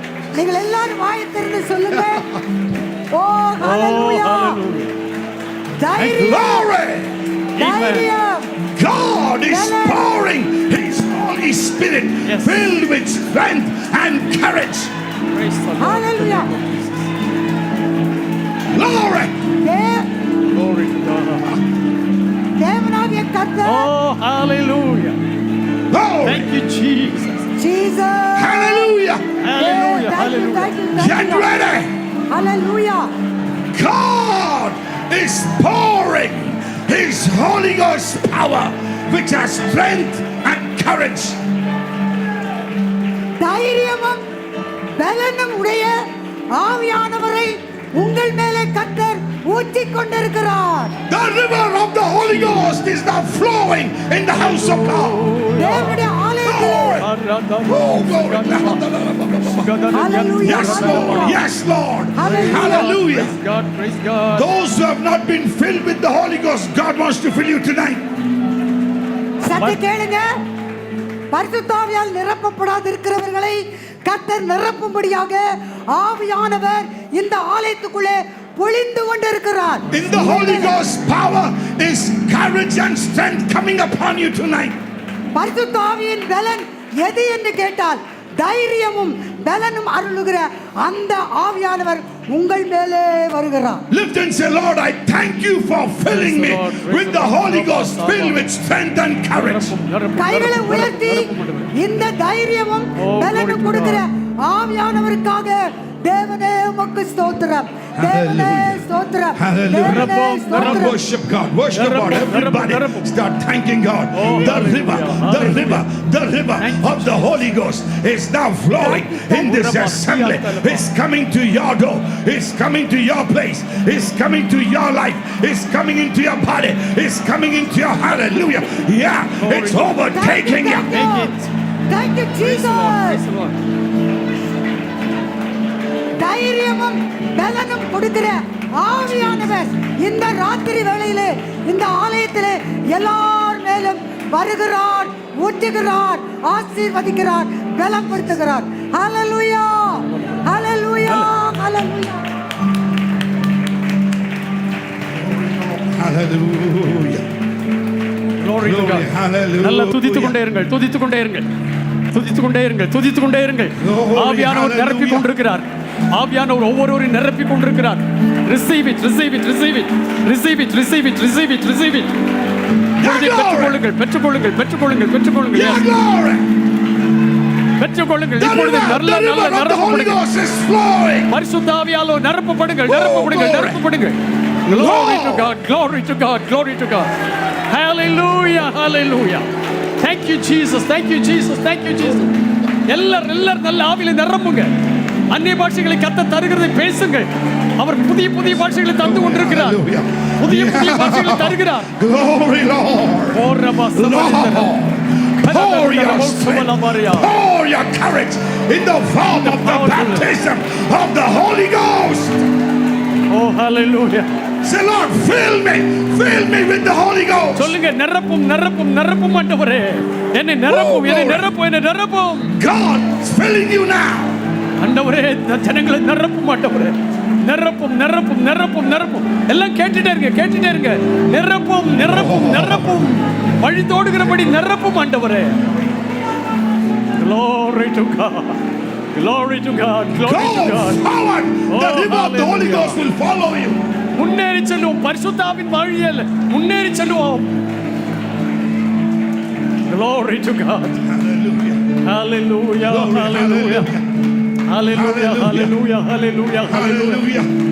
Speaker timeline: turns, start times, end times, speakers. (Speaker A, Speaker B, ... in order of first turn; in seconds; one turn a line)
Speaker A: 0.3-2.3
Speaker A: 3.1-4.6
Speaker B: 3.6-4.9
Speaker A: 5.8-6.7
Speaker C: 6.0-7.1
Speaker B: 7.5-8.1
Speaker A: 7.5-8.5
Speaker C: 8.7-14.9
Speaker A: 9.5-10.1
Speaker B: 12.2-12.6
Speaker B: 15.3-17.1
Speaker A: 15.8-16.5
Speaker C: 18.7-19.3
Speaker A: 19.6-20.1
Speaker B: 20.5-21.6
Speaker A: 22.6-23.9
Speaker B: 23.6-25.2
Speaker C: 25.9-26.5
Speaker B: 26.2-27.5
Speaker A: 27.6-28.9
Speaker C: 28.4-29.3
Speaker B: 29.4-30.8
Speaker A: 29.5-31.5
Speaker C: 30.9-31.9
Speaker A: 32.3-33.1
Speaker C: 33.7-41.4
Speaker A: 43.4-44.2
Speaker A: 45.0-46.0
Speaker A: 46.5-51.0
Speaker C: 51.1-55.3
Speaker B: 52.3-52.7
Speaker B: 54.3-56.0
Speaker A: 55.5-57.0
Speaker C: 56.4-57.1
Speaker B: 57.0-58.9
Speaker C: 57.6-59.7
Speaker B: 59.4-61.4
Speaker A: 59.9-61.4
Speaker C: 60.4-63.4
Speaker A: 62.1-62.9
Speaker B: 62.2-64.5
Speaker C: 64.3-68.0
Speaker A: 69.4-70.3
Speaker A: 71.3-80.8
Speaker C: 79.9-84.8
Speaker A: 85.3-93.8
Speaker C: 93.9-99.7
Speaker B: 96.1-98.4
Speaker B: 99.3-101.8
Speaker A: 100.2-111.0
Speaker B: 103.0-104.0
Speaker C: 108.0-130.9
Speaker B: 109.8-110.9
Speaker B: 111.7-113.1
Speaker B: 114.1-115.9
Speaker B: 116.6-117.5
Speaker B: 118.8-120.8
Speaker B: 129.4-130.1
Speaker A: 130.1-131.3
Speaker B: 130.9-131.5
Speaker A: 131.9-133.2
Speaker B: 132.4-133.6
Speaker A: 136.2-152.2
Speaker B: 150.0-150.4
Speaker B: 151.1-151.3
Speaker C: 155.3-157.2
Speaker B: 158.4-159.1
Speaker C: 158.6-160.4
Speaker B: 159.6-161.5
Speaker B: 162.1-172.1
Speaker C: 163.8-165.3
Speaker C: 173.0-173.8
Speaker B: 173.0-175.9
Speaker C: 175.5-176.4
Speaker B: 177.8-180.2
Speaker C: 178.4-181.3
Speaker B: 181.3-187.1
Speaker C: 182.8-183.8
Speaker C: 184.7-185.5
Speaker B: 187.7-189.4
Speaker B: 190.0-194.7
Speaker B: 195.3-199.8
Speaker C: 199.0-212.4
Speaker B: 200.4-201.9
Speaker B: 203.3-204.7
Speaker B: 205.4-207.3
Speaker B: 209.2-210.3
Speaker B: 213.3-214.3
Speaker C: 214.6-217.8
Speaker B: 217.6-222.5
Speaker C: 220.7-221.5
Speaker C: 222.5-224.4
Speaker B: 224.8-235.7
Speaker C: 232.0-232.9
Speaker B: 237.2-238.6
Speaker B: 239.1-241.1
Speaker C: 240.2-243.8
Speaker B: 241.7-243.0
Speaker B: 244.2-247.5
Speaker B: 249.9-251.0
Speaker C: 251.1-251.9
Speaker B: 252.0-253.9
Speaker C: 252.8-254.1
Speaker B: 254.7-257.3
Speaker C: 254.9-255.8
Speaker C: 256.7-257.5